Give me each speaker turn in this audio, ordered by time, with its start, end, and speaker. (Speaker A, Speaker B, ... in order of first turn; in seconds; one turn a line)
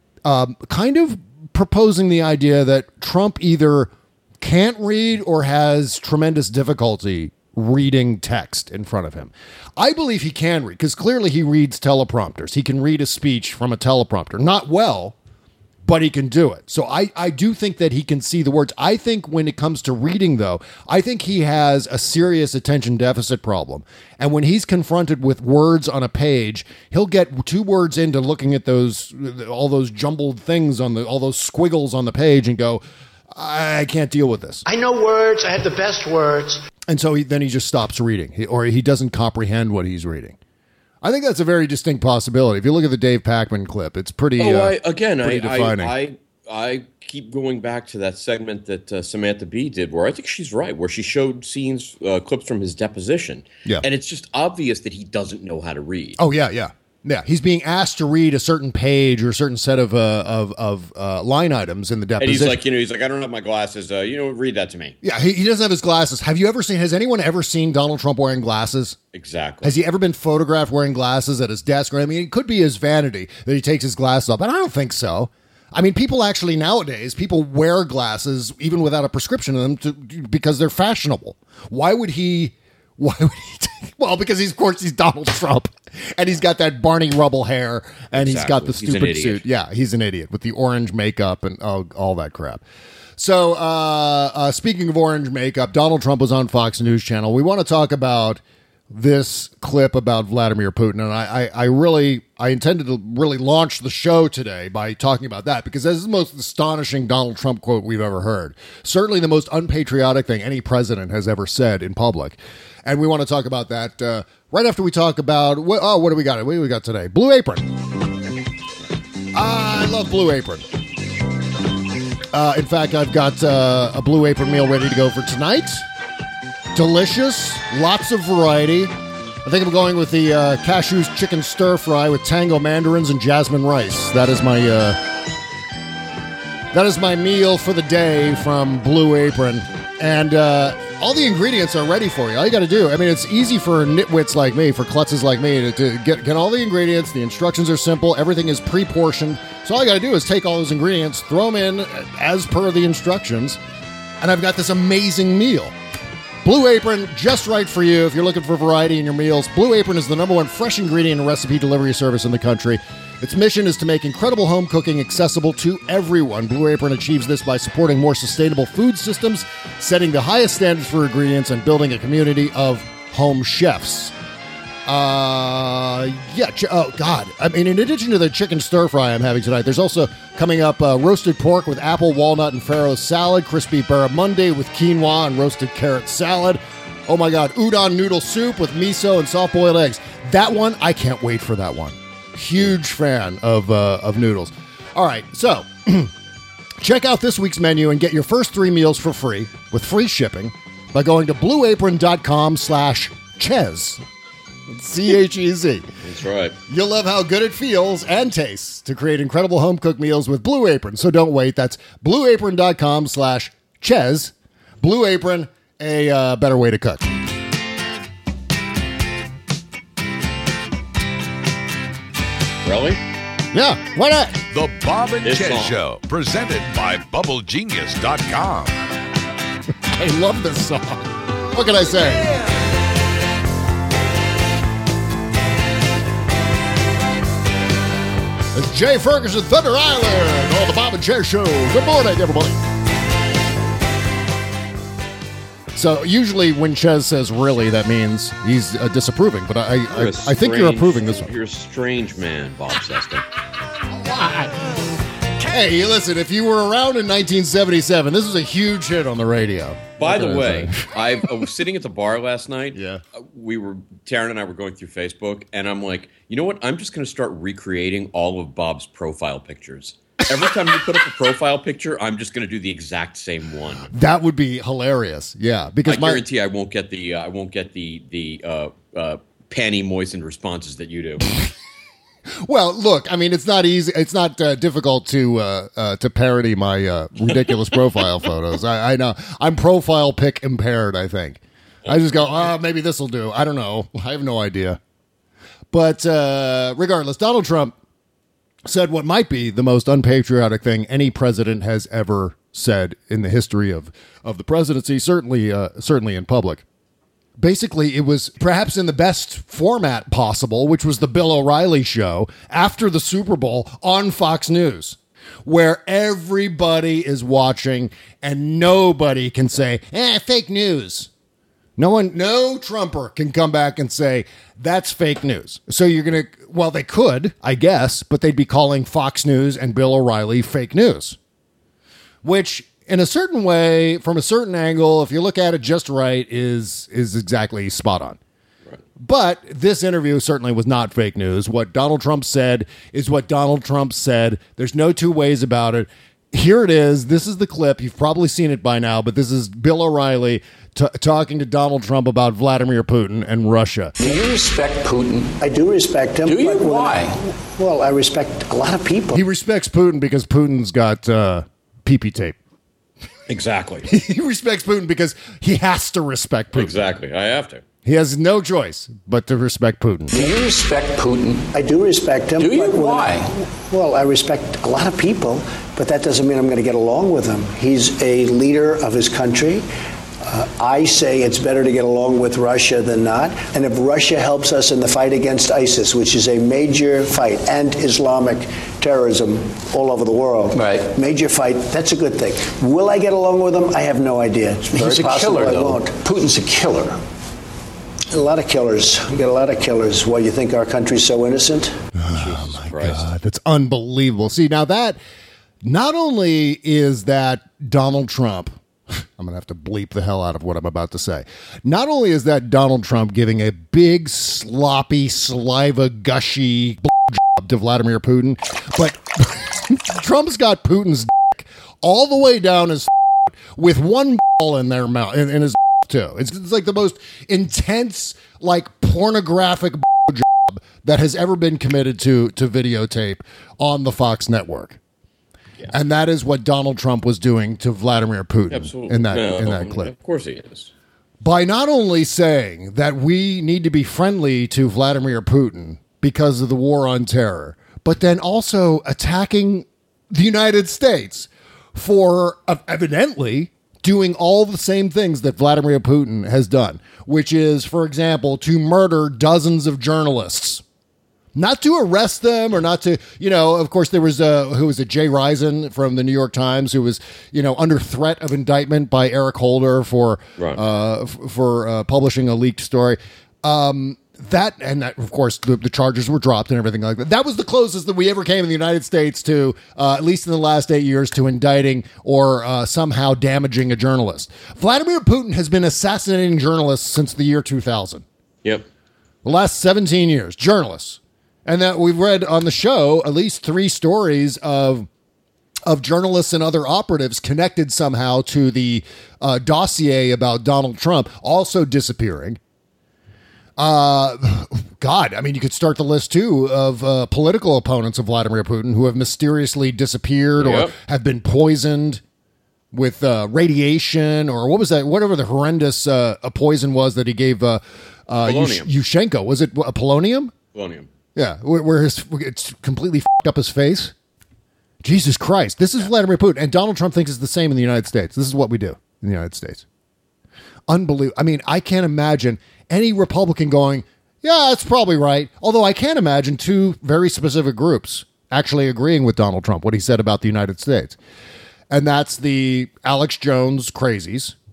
Speaker A: 0.2-15.2
Speaker A: 15.8-32.8
Speaker A: 33.3-34.6
Speaker B: 34.6-36.6
Speaker A: 36.9-40.4
Speaker A: 41.0-46.0
Speaker C: 44.4-56.2
Speaker A: 56.2-62.6
Speaker C: 62.2-65.0
Speaker A: 65.0-69.0
Speaker C: 69.1-69.8
Speaker A: 69.6-92.6
Speaker C: 88.1-89.4
Speaker A: 93.2-117.7
Speaker A: 119.3-120.7
Speaker A: 122.3-125.9
Speaker A: 126.7-128.9
Speaker A: 129.4-135.0
Speaker A: 136.7-153.6
Speaker A: 154.2-155.7
Speaker A: 156.4-174.1
Speaker A: 174.9-196.1
Speaker A: 196.8-204.0
Speaker A: 204.7-205.9
Speaker C: 206.0-206.6
Speaker A: 206.7-217.1
Speaker C: 222.6-223.0
Speaker A: 223.5-224.4
Speaker D: 224.5-228.8
Speaker C: 225.2-225.8
Speaker A: 229.9-232.3
Speaker A: 238.5-242.6
Speaker A: 245.7-251.3
Speaker C: 249.9-253.3
Speaker A: 253.9-254.7
Speaker A: 255.4-260.9
Speaker C: 260.0-273.9
Speaker A: 262.7-263.0
Speaker A: 273.9-276.2
Speaker C: 275.9-281.3
Speaker A: 282.3-294.8
Speaker A: 295.7-297.7
Speaker A: 298.7-306.6
Speaker A: 307.4-321.1
Speaker A: 321.8-331.2
Speaker A: 332.2-338.2
Speaker A: 339.0-353.9
Speaker E: 354.0-355.4
Speaker B: 355.4-359.3
Speaker E: 356.2-357.2
Speaker A: 359.1-362.4
Speaker C: 363.3-363.9
Speaker A: 363.9-366.9
Speaker C: 366.5-367.6
Speaker A: 367.9-370.1
Speaker E: 370.1-371.5
Speaker B: 371.5-379.7
Speaker E: 372.4-373.3
Speaker B: 380.2-396.1
Speaker E: 390.5-390.9
Speaker E: 394.6-397.0
Speaker B: 398.1-401.7
Speaker A: 402.0-405.0
Speaker C: 402.1-403.1
Speaker A: 405.6-434.8
Speaker A: 435.7-439.9
Speaker C: 438.5-440.7
Speaker A: 441.2-460.6
Speaker A: 461.4-488.1
Speaker A: 489.2-494.9
Speaker A: 495.6-502.4
Speaker A: 503.6-512.0
Speaker C: 510.4-510.8
Speaker A: 512.7-520.3
Speaker C: 518.2-518.7
Speaker C: 520.5-520.9
Speaker A: 521.1-523.9
Speaker A: 524.8-529.6
Speaker A: 530.7-541.0
Speaker A: 541.7-544.4